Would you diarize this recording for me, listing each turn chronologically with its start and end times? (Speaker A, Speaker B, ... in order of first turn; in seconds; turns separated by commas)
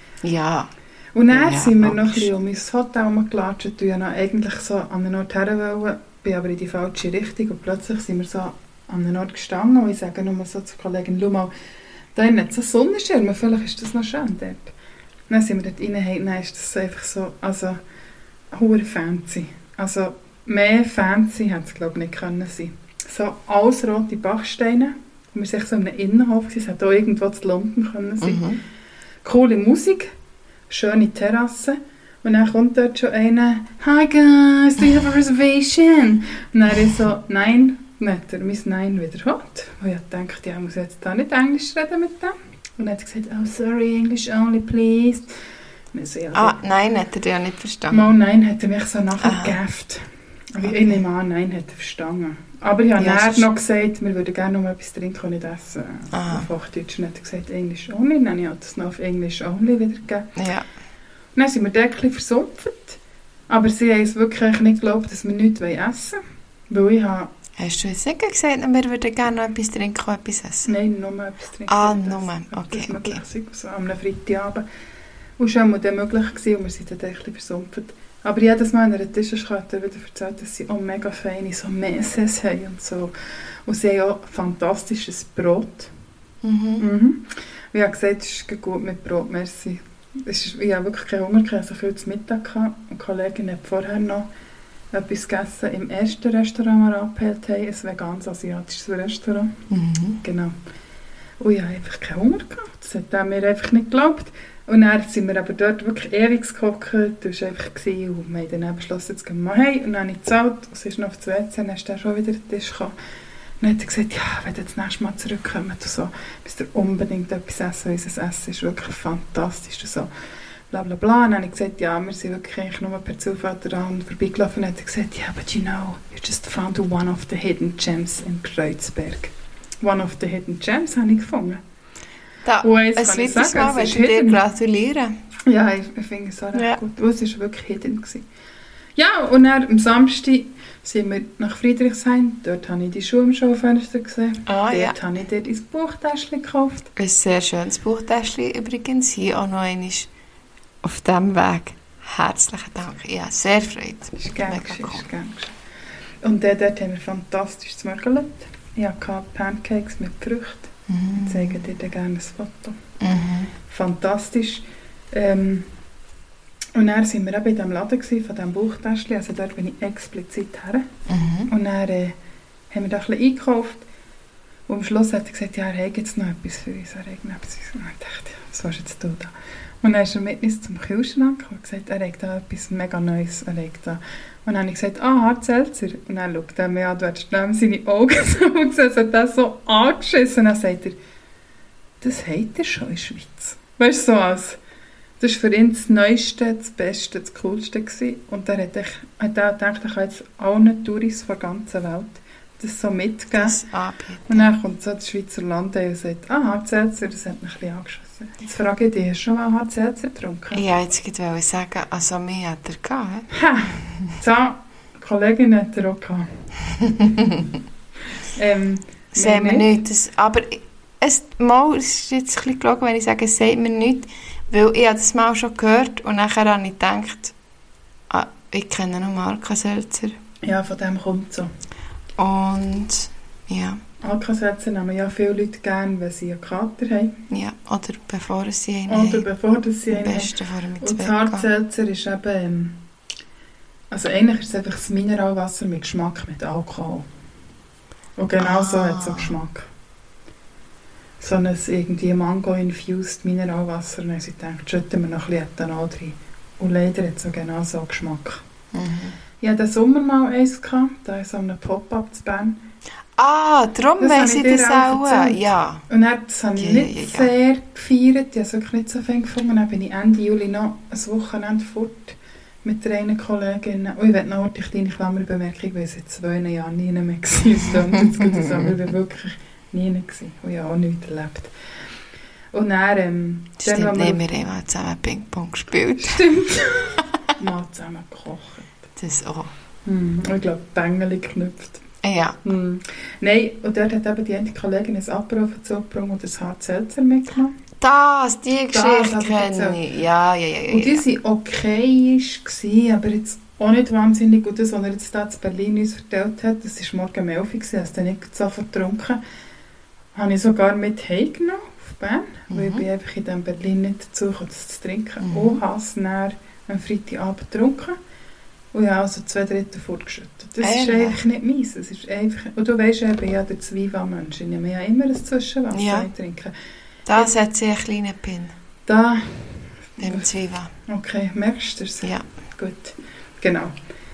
Speaker A: 0.2-0.7, Speaker B: 1.1-11.5, Speaker A: 1.3-2.3, Speaker B: 12.2-14.7, Speaker B: 15.3-17.8, Speaker B: 18.5-28.5, Speaker A: 28.2-28.6, Speaker B: 29.2-30.1, Speaker B: 30.7-45.4, Speaker B: 45.9-46.6, Speaker A: 46.3-48.1, Speaker B: 47.9-60.3, Speaker A: 49.2-49.6, Speaker A: 53.0-53.5, Speaker A: 56.1-56.5, Speaker A: 60.4-60.7, Speaker B: 61.4-67.3, Speaker A: 67.6-70.7, Speaker B: 70.7-74.7, Speaker A: 71.7-73.2, Speaker B: 75.4-83.1, Speaker B: 83.7-85.9, Speaker A: 86.4-86.8, Speaker B: 86.8-94.3, Speaker B: 94.9-99.5, Speaker A: 99.7-100.2, Speaker B: 100.2-100.5, Speaker B: 101.4-112.9, Speaker B: 113.6-120.1, Speaker B: 120.7-131.6, Speaker A: 132.4-135.1, Speaker B: 132.6-134.4, Speaker B: 135.5-138.2, Speaker B: 139.0-146.9, Speaker A: 144.5-145.0, Speaker A: 147.0-150.1, Speaker A: 150.8-155.0, Speaker B: 154.2-155.6, Speaker B: 156.2-162.8, Speaker A: 160.9-161.6, Speaker A: 163.0-163.5, Speaker B: 163.7-165.7, Speaker B: 166.8-170.9, Speaker A: 171.1-171.5, Speaker B: 171.5-172.2, Speaker B: 172.7-173.8, Speaker B: 174.7-191.0, Speaker B: 192.0-194.6, Speaker B: 195.2-203.6, Speaker A: 203.3-204.5, Speaker B: 204.3-210.6, Speaker A: 210.5-213.3, Speaker B: 213.3-216.3, Speaker A: 216.8-217.5, Speaker B: 218.3-219.8, Speaker A: 219.2-227.3, Speaker A: 228.1-230.2, Speaker B: 230.4-231.5, Speaker A: 232.2-233.8, Speaker B: 234.0-237.2, Speaker A: 237.3-239.3, Speaker B: 238.9-242.8, Speaker A: 239.9-241.5, Speaker B: 243.9-247.1, Speaker B: 248.2-249.7, Speaker A: 248.4-249.3, Speaker B: 251.2-258.4, Speaker A: 258.7-259.2, Speaker B: 259.4-262.6, Speaker A: 263.2-265.8, Speaker B: 264.0-281.5, Speaker A: 266.6-267.3, Speaker A: 277.9-278.7, Speaker B: 282.5-284.2, Speaker A: 283.6-287.3, Speaker B: 286.0-288.7, Speaker A: 289.0-289.5, Speaker B: 289.9-291.8, Speaker A: 292.0-292.4, Speaker B: 292.4-297.5, Speaker A: 297.8-301.0, Speaker B: 298.7-299.8, Speaker B: 300.7-309.2, Speaker B: 310.1-318.0, Speaker A: 312.5-312.8, Speaker A: 315.2-315.6, Speaker B: 318.7-326.5, Speaker A: 320.6-321.2, Speaker A: 325.7-326.1, Speaker A: 327.1-328.6, Speaker B: 328.9-330.3, Speaker A: 330.0-330.7, Speaker B: 330.9-333.7